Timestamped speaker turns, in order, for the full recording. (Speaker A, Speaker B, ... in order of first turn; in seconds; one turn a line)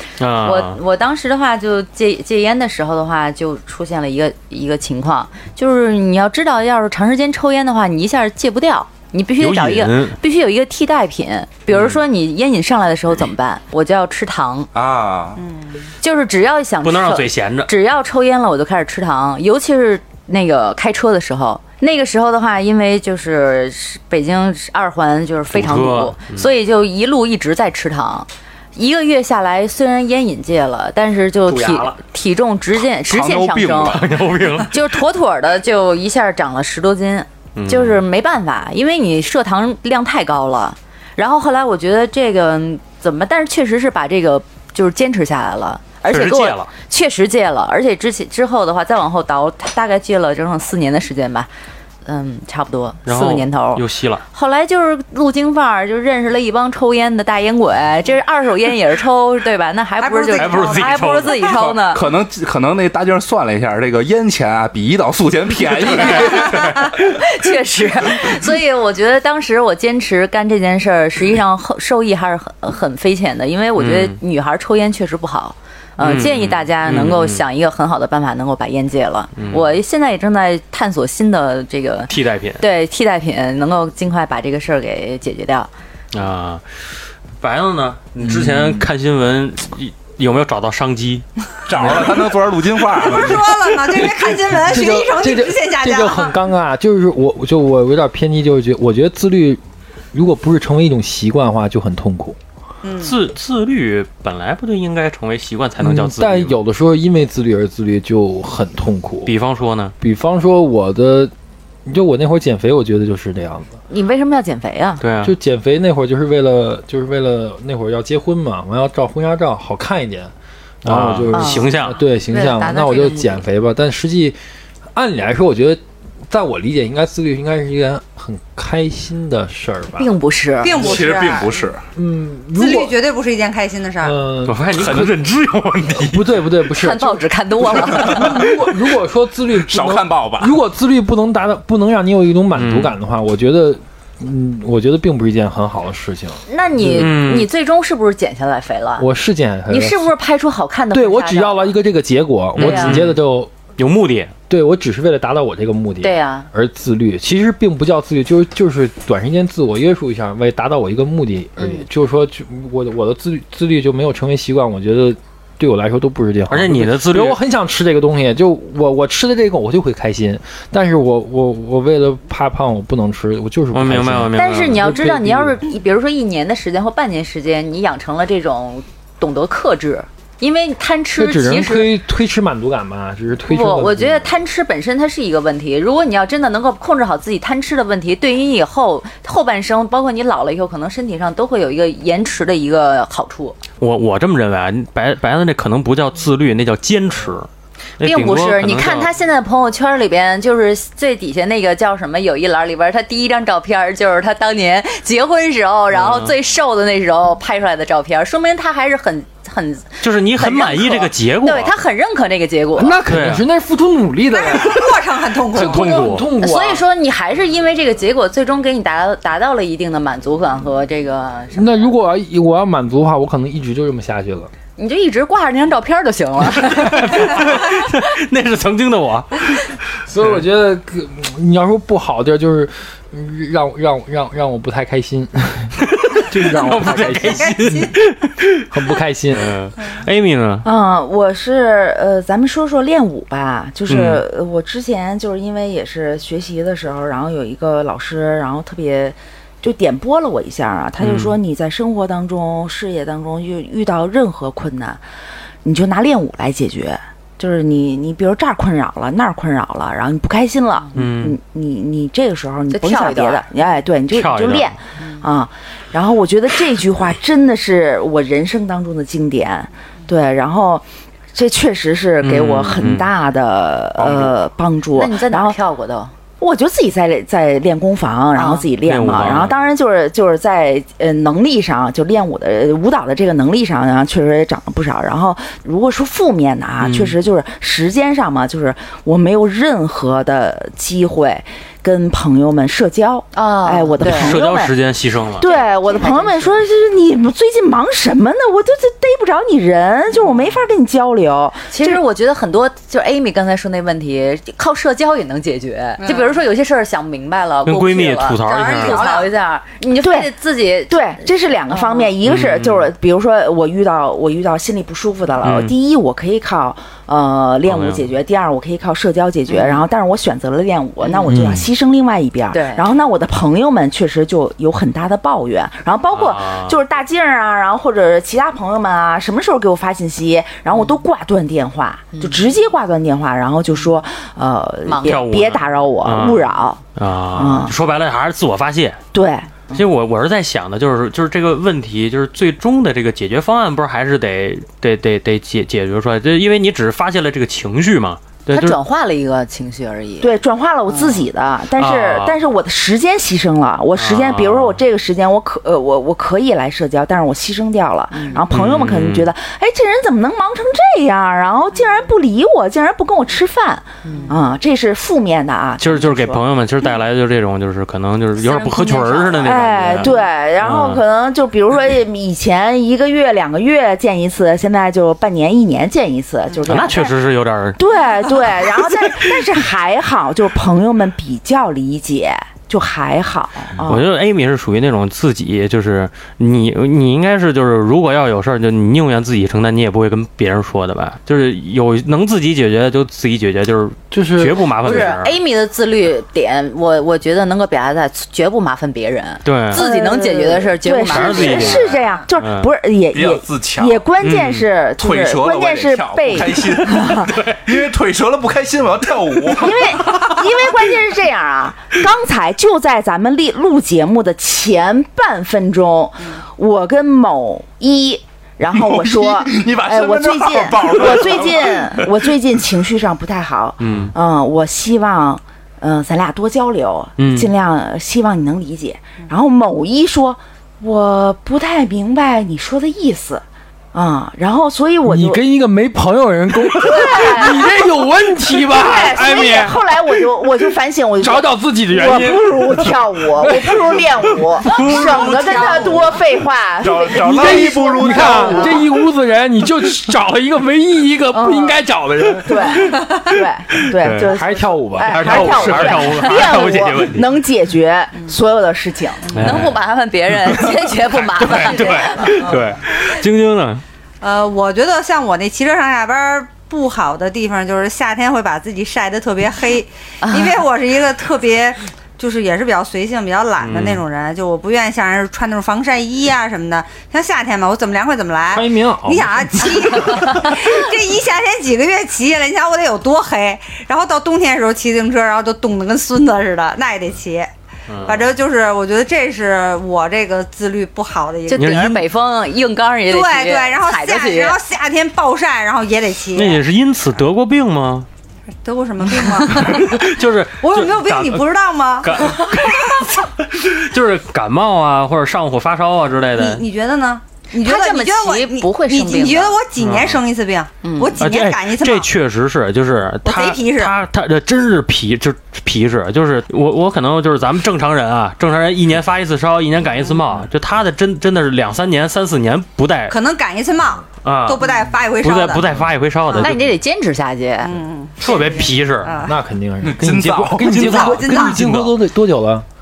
Speaker A: 0.2-0.8
Speaker B: 0.4-14.7
Speaker A: 9.4-10.2
Speaker C: 14.7-15.4
Speaker D: 15.4-15.8
Speaker B: 16.0-34.0
Speaker A: 16.8-17.7
Speaker A: 25.5-26.5
Speaker A: 31.5-32.0
Speaker C: 33.0-34.2
Speaker A: 33.9-34.8
Speaker B: 34.7-51.5
Speaker A: 37.6-38.0
Speaker A: 46.1-46.7
Speaker B: 52.1-62.0
Speaker A: 53.1-54.2
Speaker D: 60.0-61.4
Speaker A: 60.4-61.5
Speaker C: 61.5-66.9
Speaker B: 66.0-85.7
Speaker A: 73.8-74.2
Speaker A: 76.0-77.4
Speaker A: 79.4-79.7
Speaker A: 82.1-82.6
Speaker A: 86.1-86.8
Speaker A: 87.4-91.2
Speaker E: 88.2-88.9
Speaker C: 91.7-93.5
Speaker D: 92.9-96.3
Speaker E: 93.3-99.6
Speaker E: 100.1-102.4
Speaker D: 102.8-103.2
Speaker A: 103.0-106.6
Speaker E: 105.8-109.3
Speaker A: 109.2-109.9
Speaker E: 110.0-111.3
Speaker E: 111.8-113.7
Speaker B: 113.9-115.0
Speaker A: 115.0-115.3
Speaker E: 115.2-124.4
Speaker A: 120.8-122.0
Speaker B: 121.3-121.7
Speaker B: 122.2-123.4
Speaker E: 124.9-130.1
Speaker B: 130.0-130.9
Speaker D: 130.6-131.7
Speaker C: 130.7-131.8
Speaker E: 131.9-132.9
Speaker D: 132.6-134.2
Speaker E: 134.0-135.1
Speaker A: 134.4-136.3
Speaker C: 134.8-135.1
Speaker E: 136.0-137.2
Speaker B: 136.8-138.5
Speaker E: 137.8-147.1
Speaker C: 139.6-140.5
Speaker A: 142.6-142.9
Speaker B: 146.5-149.1
Speaker A: 146.9-147.5
Speaker E: 149.0-150.1
Speaker B: 149.7-151.7
Speaker E: 150.9-153.5
Speaker A: 152.6-153.2
Speaker B: 152.6-153.0
Speaker A: 153.8-154.3
Speaker E: 154.5-175.6
Speaker B: 156.0-156.5
Speaker B: 161.6-161.9
Speaker A: 166.5-167.4
Speaker A: 173.7-174.9
Speaker B: 174.3-181.9
Speaker E: 181.2-184.3
Speaker B: 183.5-193.6
Speaker A: 193.8-199.1
Speaker B: 198.0-213.0
Speaker A: 205.9-206.3
Speaker A: 210.0-211.8
Speaker E: 212.8-216.8
Speaker A: 213.1-213.4
Speaker D: 214.3-216.0
Speaker A: 215.6-216.3
Speaker B: 216.4-221.9
Speaker E: 221.5-224.5
Speaker B: 224.8-227.9
Speaker A: 226.5-230.4
Speaker E: 230.1-237.9
Speaker A: 235.9-238.7
Speaker D: 237.1-237.9
Speaker E: 238.7-239.5
Speaker A: 239.3-240.7
Speaker F: 240.6-255.0
Speaker A: 243.9-244.2
Speaker A: 251.0-251.4
Speaker F: 255.6-270.8
Speaker A: 260.9-261.4
Speaker B: 262.7-263.5
Speaker A: 264.1-264.8
Speaker B: 265.0-265.2
Speaker F: 271.4-275.6
Speaker A: 272.2-273.1
Speaker C: 274.0-274.3
Speaker B: 274.9-276.1
Speaker F: 276.4-294.8
Speaker B: 278.4-278.7
Speaker A: 278.8-279.6
Speaker A: 286.8-287.2
Speaker B: 293.3-294.4
Speaker A: 294.0-295.5
Speaker F: 295.4-302.0
Speaker B: 295.4-296.6
Speaker B: 300.1-300.6
Speaker B: 301.7-312.1
Speaker D: 306.0-306.4
Speaker A: 307.7-309.0
Speaker D: 308.5-309.3
Speaker F: 310.0-310.3
Speaker F: 310.9-336.8
Speaker A: 312.2-312.9
Speaker A: 315.4-315.8
Speaker A: 317.6-318.1
Speaker B: 319.5-319.9
Speaker B: 321.0-321.2
Speaker E: 321.3-321.6
Speaker B: 322.5-322.9
Speaker A: 326.1-326.8
Speaker B: 332.1-332.5
Speaker B: 334.8-335.2
Speaker A: 335.0-339.0
Speaker F: 337.3-337.7
Speaker F: 339.1-339.5
Speaker A: 339.7-348.8
Speaker B: 348.5-350.3
Speaker F: 350.2-366.4
Speaker B: 350.9-351.3
Speaker A: 351.8-352.4
Speaker A: 354.0-354.8
Speaker B: 358.1-358.4
Speaker A: 358.5-359.3
Speaker B: 364.0-364.4
Speaker A: 365.8-371.0
Speaker B: 368.4-370.2
Speaker F: 369.4-377.2
Speaker A: 376.7-379.2
Speaker F: 377.8-384.1
Speaker A: 383.8-395.4
Speaker E: 394.1-394.7
Speaker B: 394.8-402.0
Speaker A: 399.4-399.8
Speaker F: 399.7-407.5
Speaker A: 401.1-402.7
Speaker C: 403.1-404.0
Speaker A: 404.2-404.7
Speaker C: 405.0-410.2
Speaker F: 409.5-435.4
Speaker C: 418.7-422.2
Speaker A: 423.8-424.1
Speaker A: 427.2-427.5
Speaker E: 435.0-440.3
Speaker F: 436.6-437.8
Speaker F: 438.5-448.9
Speaker E: 441.2-444.6
Speaker A: 444.7-446.0
Speaker D: 444.9-446.0
Speaker C: 446.8-448.8
Speaker E: 447.2-452.9
Speaker F: 451.3-451.8
Speaker F: 452.4-459.3
Speaker A: 453.9-454.3
Speaker E: 454.1-456.3
Speaker A: 455.0-457.4
Speaker A: 459.3-459.8
Speaker B: 459.3-462.6
Speaker A: 460.5-460.8
Speaker A: 461.3-463.8
Speaker D: 464.2-487.5
Speaker B: 470.2-470.6
Speaker A: 473.6-474.0
Speaker E: 478.5-480.2
Speaker A: 487.9-488.2
Speaker D: 488.0-492.0
Speaker B: 491.5-494.6
Speaker A: 491.5-492.0
Speaker D: 493.1-496.6
Speaker A: 496.4-498.1
Speaker D: 498.6-500.0
Speaker A: 499.3-501.4
Speaker D: 500.6-503.0
Speaker A: 502.0-506.6
Speaker D: 506.4-512.1
Speaker B: 507.6-509.6
Speaker A: 509.8-510.2
Speaker B: 510.8-511.1
Speaker A: 511.2-523.2
Speaker D: 513.2-514.0
Speaker D: 523.1-526.6
Speaker A: 524.2-524.7
Speaker A: 525.2-526.7
Speaker B: 526.4-527.7
Speaker D: 527.6-529.4
Speaker A: 528.2-529.2
Speaker E: 529.2-532.7
Speaker C: 529.8-531.0
Speaker A: 530.6-532.0
Speaker D: 530.8-531.6